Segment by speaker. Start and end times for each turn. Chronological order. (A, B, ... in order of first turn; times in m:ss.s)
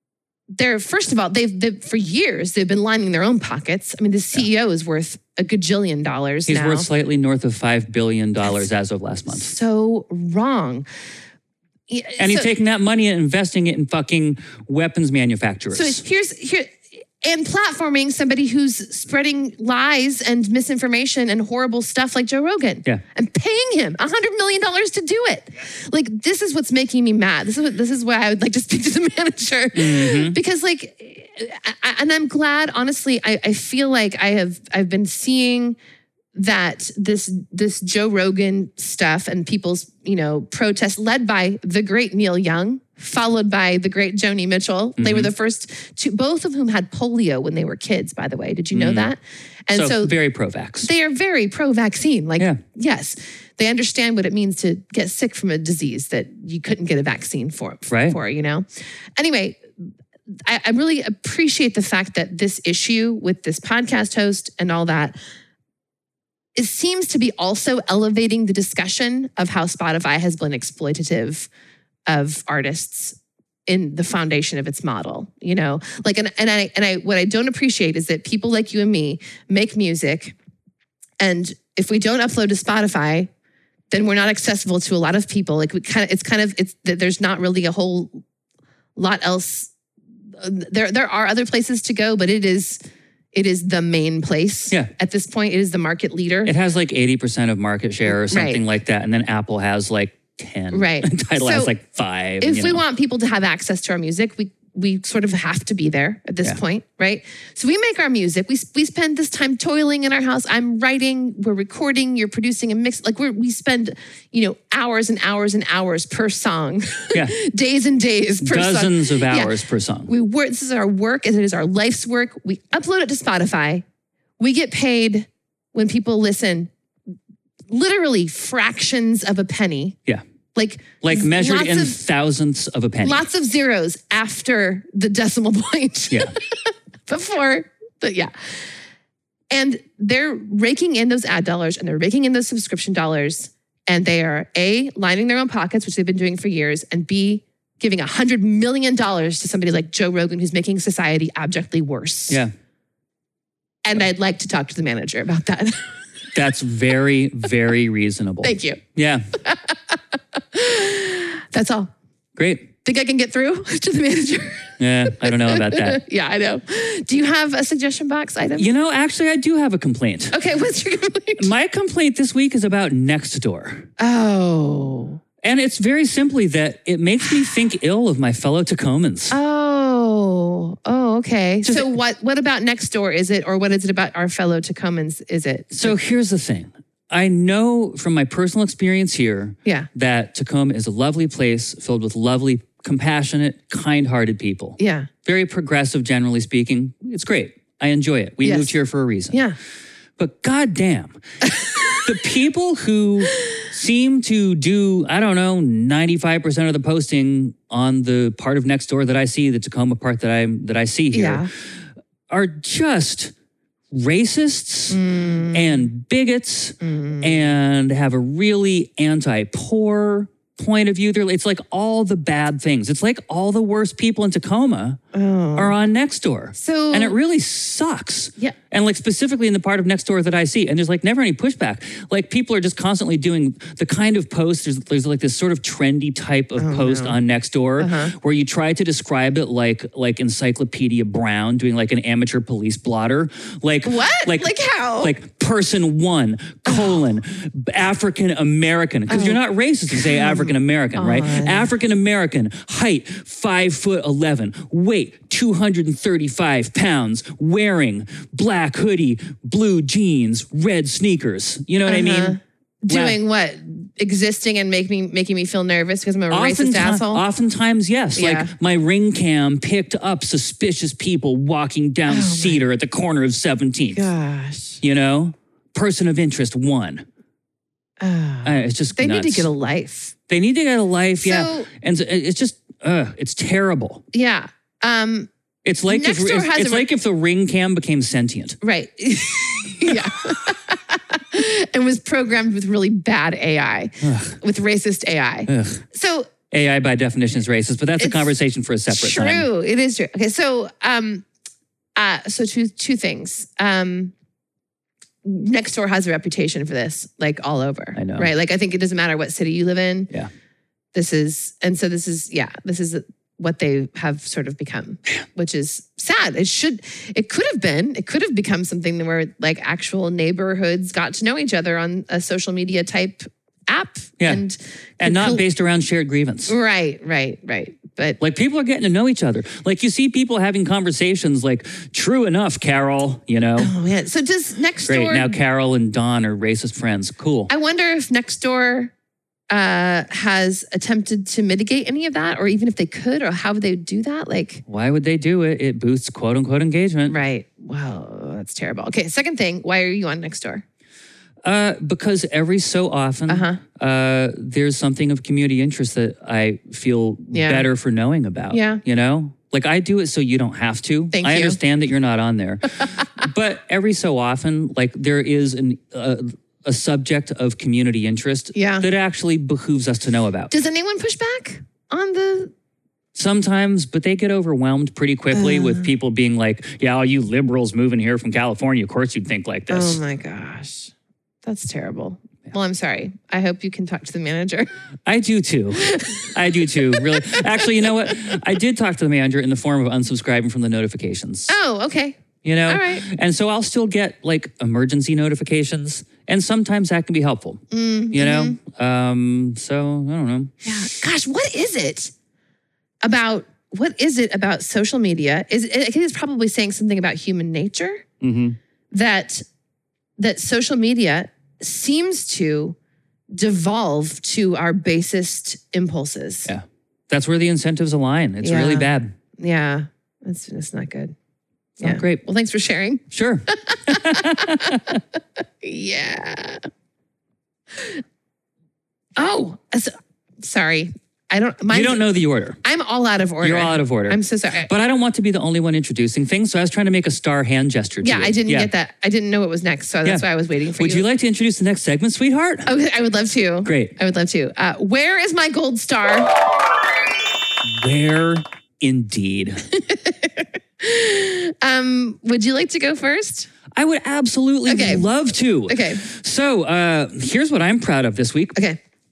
0:00.5-0:06.9 A
0:06.5-0:09.5 B
0:09.3-0:10.8 A
0:11.9-0:12.5 A
0:12.2-0:16.0 B
0:15.7-0:35.8 A
0:29.7-0:30.4 B
0:36.3-0:50.1 A
0:45.0-0:45.3 B
0:48.7-0:49.1 B
0:49.7-0:50.9 B
0:50.8-0:58.6 A
0:57.9-0:58.2 B
0:59.2-0:59.6 A
1:00.4-1:05.2 A
1:06.5-1:11.5 A
1:12.1-1:20.3 A
1:21.2-1:23.3 A
1:23.9-1:28.2 A
1:29.0-1:29.7 A
1:30.4-1:32.8 A
1:33.3-1:36.5 A
1:36.4-1:42.8 B
1:38.1-1:38.6 A
1:40.7-1:41.7 A
1:42.4-1:59.5 A
1:58.4-2:00.1 B
2:00.1-2:03.8 A
2:04.4-2:06.7 A
2:07.7-2:10.0 A
2:10.5-2:12.0 A
2:11.0-2:13.2 B
2:13.0-2:18.3 A
2:19.5-2:32.4 A
2:33.8-2:35.9 A
2:36.3-2:39.3 B
2:38.4-2:38.8 A
2:39.4-2:41.9 A
2:42.4-2:42.7 B
2:42.8-2:48.7 A
2:44.8-2:46.0 B
2:48.6-2:50.4 B
2:50.3-2:51.5 A
2:51.4-2:53.9 B
2:54.0-2:55.2 A
2:55.4-2:59.3 B
2:59.3-3:06.0 A
3:01.6-3:01.9 B
3:05.7-3:19.4 B
3:14.8-3:15.1 A
3:18.4-3:18.7 A
3:19.3-3:19.6 A
3:20.2-3:21.2 B
3:22.0-3:31.5 B
3:31.1-3:31.5 A
3:32.3-3:33.3 B
3:33.9-3:35.0 B
3:34.9-3:35.8 A
3:35.5-3:45.0 B
3:36.8-3:37.5 A
3:45.1-3:45.7 A
3:45.6-4:23.2 B
3:46.5-3:47.2 A
3:56.6-3:57.2 A
3:57.8-3:58.1 A
4:03.8-4:05.1 A
4:06.7-4:07.0 A
4:09.1-4:09.4 A
4:09.9-4:11.7 A
4:21.8-4:27.2 A
4:26.3-4:34.1 B
4:28.1-4:28.5 A
4:32.1-4:32.6 A
4:33.9-4:34.8 A
4:34.8-4:37.0 B
4:38.0-4:40.1 A
4:38.4-4:39.5 B
4:40.3-4:44.0 B
4:41.2-4:41.7 A
4:44.1-4:45.3 A
4:45.6-4:48.6 B
4:45.9-4:46.8 A
4:48.6-4:56.3 A
4:54.0-4:54.4 B
4:55.5-4:55.8 B
4:56.5-4:59.4 B
4:58.0-4:58.3 A
4:58.9-5:01.2 A
5:02.0-5:04.1 A
5:05.2-5:10.1 A
5:07.9-5:08.3 B
5:10.9-5:25.4 A
5:25.0-5:26.5 B
5:26.5-5:28.2 A
5:28.2-5:33.7 B
5:33.6-5:35.4 A
5:34.9-5:37.5 B
5:37.5-5:38.9 A
5:39.5-5:44.6 A
5:44.7-5:47.1 B
5:47.1-5:50.6 A
5:51.4-6:10.5 B
5:53.3-5:53.6 A
5:57.3-5:57.7 A
5:58.5-5:58.8 A
6:01.1-6:01.6 A
6:08.5-6:08.8 A
6:10.5-6:12.5 A
6:13.1-6:20.0 B
6:15.3-6:15.9 A
6:19.7-6:20.9 A
6:21.4-6:24.7 A
6:25.0-6:31.5 B
6:25.8-6:27.6 A
6:31.5-6:33.0 A
6:32.4-6:40.5 B
6:37.7-6:38.6 A
6:40.6-6:42.1 A
6:43.0-6:48.0 A
6:48.2-6:48.6 B
6:48.9-6:49.4 A
6:50.2-6:52.8 A
6:53.3-6:56.5 A
6:56.4-6:59.1 B
6:58.4-7:01.1 A
7:01.8-7:03.0 A
7:01.8-7:02.2 B
7:03.1-7:05.0 B
7:03.6-7:04.8 A
7:05.6-7:06.6 A
7:09.2-7:12.1 A
7:11.7-7:12.6 B
7:12.6-7:14.7 A
7:13.4-7:18.7 B
7:18.0-7:21.0 A
7:20.8-7:22.7 B
7:22.6-7:26.3 A
7:23.6-7:23.9 B
7:27.6-7:29.6 B
7:29.7-7:33.5 A
7:33.7-7:38.6 B
7:34.7-7:35.0 A
7:35.7-7:36.0 A